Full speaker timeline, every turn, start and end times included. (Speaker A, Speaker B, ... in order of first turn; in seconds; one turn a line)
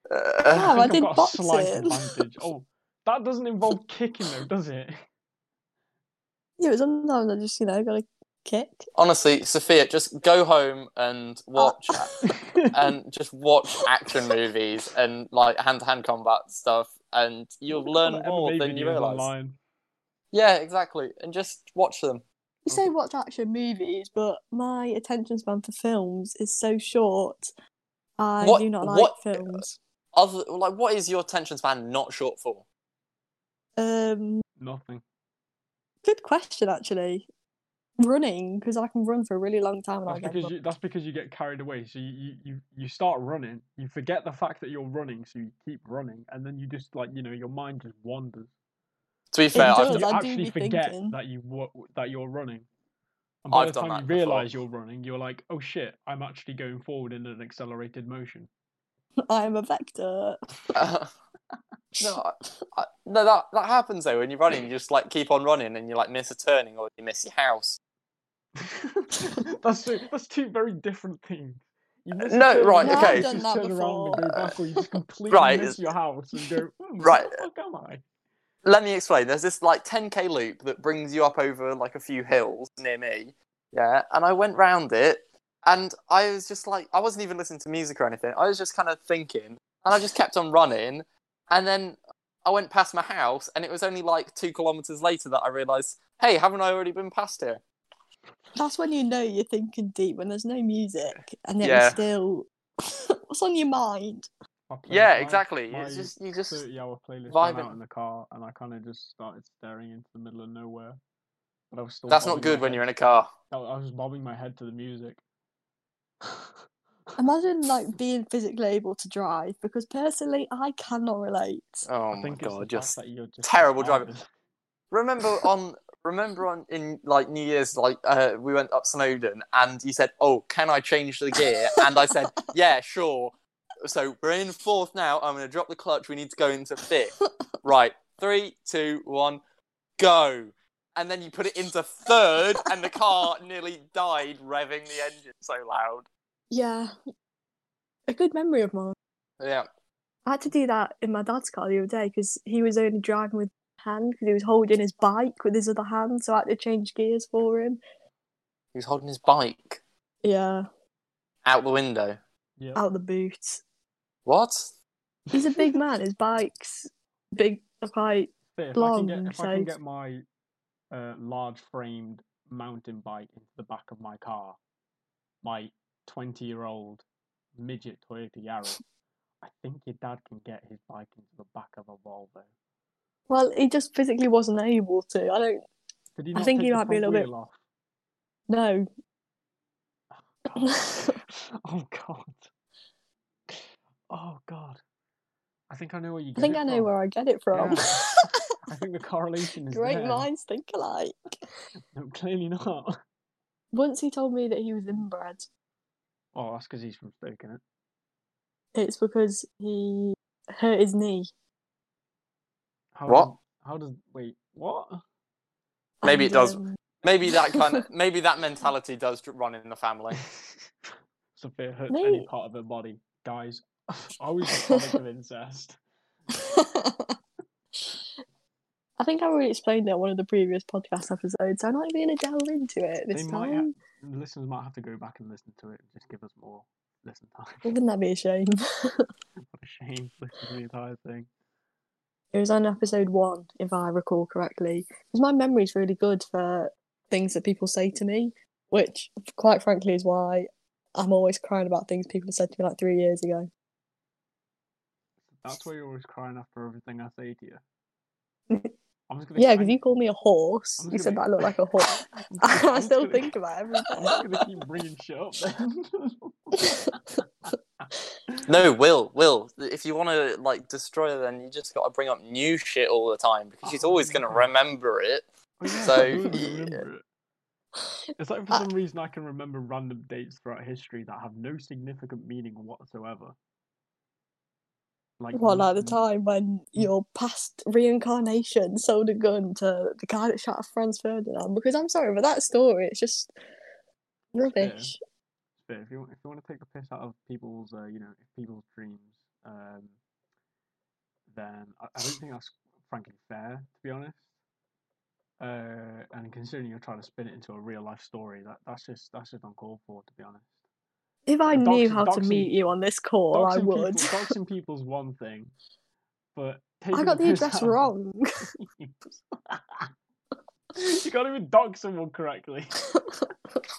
Speaker A: 0.1-0.8
Speaker B: 0.5-2.0
Speaker C: 0.6-5.0
Speaker B: 6.6-8.9
Speaker A: 9.0-12.1
Speaker B: 11.6-12.3
Speaker C: 12.2-12.7
Speaker A: 12.7-19.3
Speaker B: 14.1-14.4
Speaker C: 17.7-19.6
Speaker A: 20.3-22.2
Speaker B: 22.7-27.5
Speaker B: 28.2-29.8
Speaker A: 28.4-32.6
Speaker B: 33.8-34.4
Speaker C: 34.6-35.0
Speaker B: 36.0-37.3
Speaker B: 38.0-40.5
Speaker C: 40.1-48.5
Speaker A: 49.3-50.0
Speaker B: 49.5-51.1
Speaker C: 49.5-52.7
Speaker C: 53.4-58.5
Speaker A: 53.5-54.5
Speaker B: 59.3-60.4
Speaker A: 60.7-61.1
Speaker B: 62.0-62.7
Speaker A: 62.0-67.8
Speaker C: 68.6-78.0
Speaker A: 72.2-73.3
Speaker B: 72.8-74.3
Speaker A: 75.3-75.8
Speaker A: 77.0-77.3
Speaker A: 78.6-97.6
Speaker B: 98.6-104.3
Speaker A: 101.6-102.0
Speaker C: 104.7-111.0
Speaker A: 104.9-106.6
Speaker A: 107.3-107.7
Speaker C: 111.7-112.9
Speaker A: 112.1-113.3
Speaker C: 113.5-115.2
Speaker C: 116.2-116.5
Speaker B: 117.2-121.9
Speaker A: 121.9-124.1
Speaker C: 122.1-124.3
Speaker A: 124.9-139.4
Speaker B: 131.8-132.2
Speaker A: 140.0-146.1
Speaker B: 146.5-146.9
Speaker B: 148.1-149.0
Speaker A: 149.4-149.7
Speaker B: 150.3-157.8
Speaker A: 158.7-159.8
Speaker B: 160.2-160.7
Speaker A: 161.4-162.2
Speaker B: 162.8-163.6
Speaker A: 164.3-164.7
Speaker C: 165.3-165.8
Speaker B: 165.3-169.7
Speaker C: 168.5-170.2
Speaker C: 170.9-174.6
Speaker C: 175.4-177.1
Speaker C: 177.6-178.8
Speaker C: 179.4-182.5
Speaker B: 183.3-185.7
Speaker C: 186.2-187.6
Speaker B: 186.3-187.3
Speaker B: 188.5-188.9
Speaker C: 190.1-192.5
Speaker B: 190.6-191.2
Speaker C: 193.5-194.8
Speaker C: 195.7-196.9
Speaker B: 196.4-198.4
Speaker C: 197.5-198.0
Speaker C: 198.7-200.3
Speaker B: 199.7-201.3
Speaker C: 201.9-203.0
Speaker B: 203.7-205.5
Speaker C: 206.3-207.6
Speaker B: 208.8-211.3
Speaker C: 212.9-215.0
Speaker B: 216.0-216.7
Speaker A: 216.0-220.2
Speaker B: 217.3-217.8
Speaker C: 220.2-220.6
Speaker C: 221.4-225.8
Speaker B: 221.9-222.3
Speaker B: 224.5-224.8
Speaker B: 226.3-227.2
Speaker B: 229.0-233.7
Speaker C: 233.1-237.7
Speaker B: 237.7-239.1
Speaker C: 239.4-241.3
Speaker B: 242.3-253.5
Speaker C: 255.3-257.6
Speaker C: 259.1-260.0
Speaker B: 259.4-264.1
Speaker C: 260.8-261.5
Speaker C: 262.2-263.4
Speaker C: 263.9-268.4
Speaker A: 268.5-275.2
Speaker C: 273.6-274.5
Speaker C: 275.6-277.1
Speaker A: 275.8-276.8
Speaker C: 278.2-283.4
Speaker C: 285.2-286.0
Speaker B: 285.3-293.3
Speaker B: 294.3-295.0
Speaker C: 294.6-294.9
Speaker C: 295.6-300.0
Speaker C: 301.3-304.2
Speaker C: 305.4-310.6
Speaker B: 311.3-314.3
Speaker C: 311.5-312.5
Speaker C: 313.3-315.5
Speaker C: 316.4-319.9
Speaker B: 316.9-318.3
Speaker C: 320.8-322.8
Speaker B: 322.9-323.3